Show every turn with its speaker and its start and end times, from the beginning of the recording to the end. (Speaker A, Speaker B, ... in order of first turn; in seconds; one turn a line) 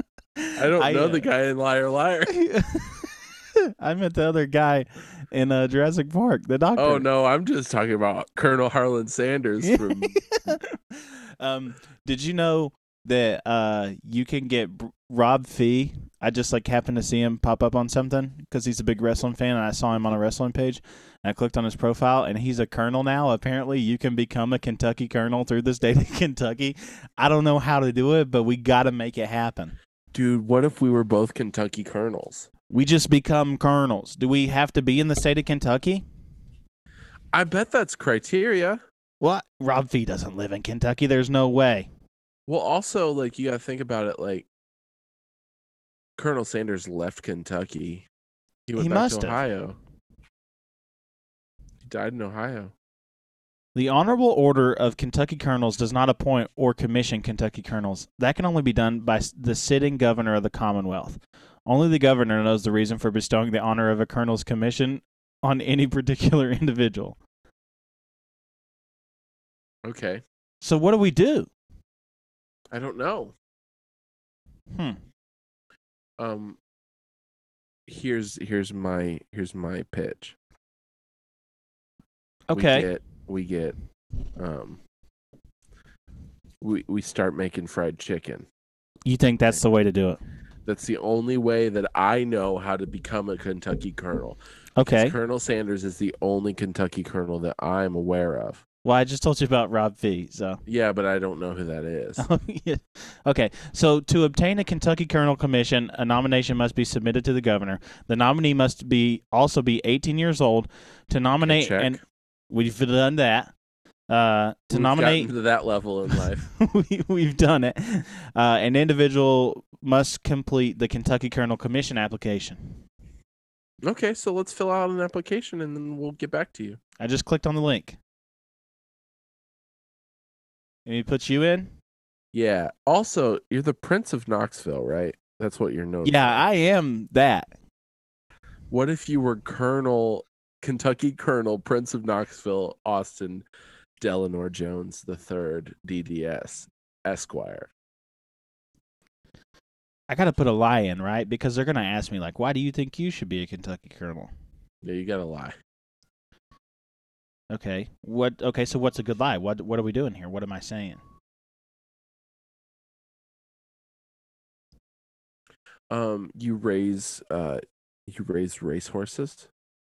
Speaker A: 0.4-1.3
Speaker B: 0.6-2.3
Speaker A: 2.3-7.1
Speaker B: 6.8-10.2
Speaker A: 9.6-29.8
Speaker B: 30.1-32.5
Speaker A: 32.7-36.0
Speaker B: 37.3-38.8
Speaker A: 39.2-41.9
Speaker B: 42.5-44.5
Speaker B: 46.2-48.1
Speaker B: 48.7-49.8
Speaker A: 48.8-49.4
Speaker B: 51.8-52.7
Speaker A: 53.8-67.2
Speaker B: 69.8-70.2
Speaker A: 70.6-71.5
Speaker B: 72.7-73.3
Speaker A: 74.7-75.0
Speaker B: 76.2-76.6
Speaker B: 77.9-80.4
Speaker A: 82.5-82.9
Speaker B: 82.5-83.8
Speaker B: 84.4-84.8
Speaker B: 86.6-88.5
Speaker A: 89.1-90.2
Speaker B: 90.7-98.6
Speaker A: 94.8-95.2
Speaker A: 98.8-100.6
Speaker B: 100.7-102.2
Speaker A: 102.2-112.0
Speaker B: 111.4-112.0
Speaker A: 112.5-113.5
Speaker A: 114.1-115.3
Speaker B: 114.7-116.5
Speaker A: 116.1-122.8
Speaker B: 123.8-126.8
Speaker A: 127.0-128.0
Speaker A: 130.9-131.7
Speaker B: 132.3-136.4
Speaker A: 136.0-137.5
Speaker B: 138.7-143.5
Speaker B: 144.0-147.7
Speaker A: 150.1-154.3
Speaker B: 154.8-155.6
Speaker A: 157.5-161.0
Speaker B: 165.9-169.5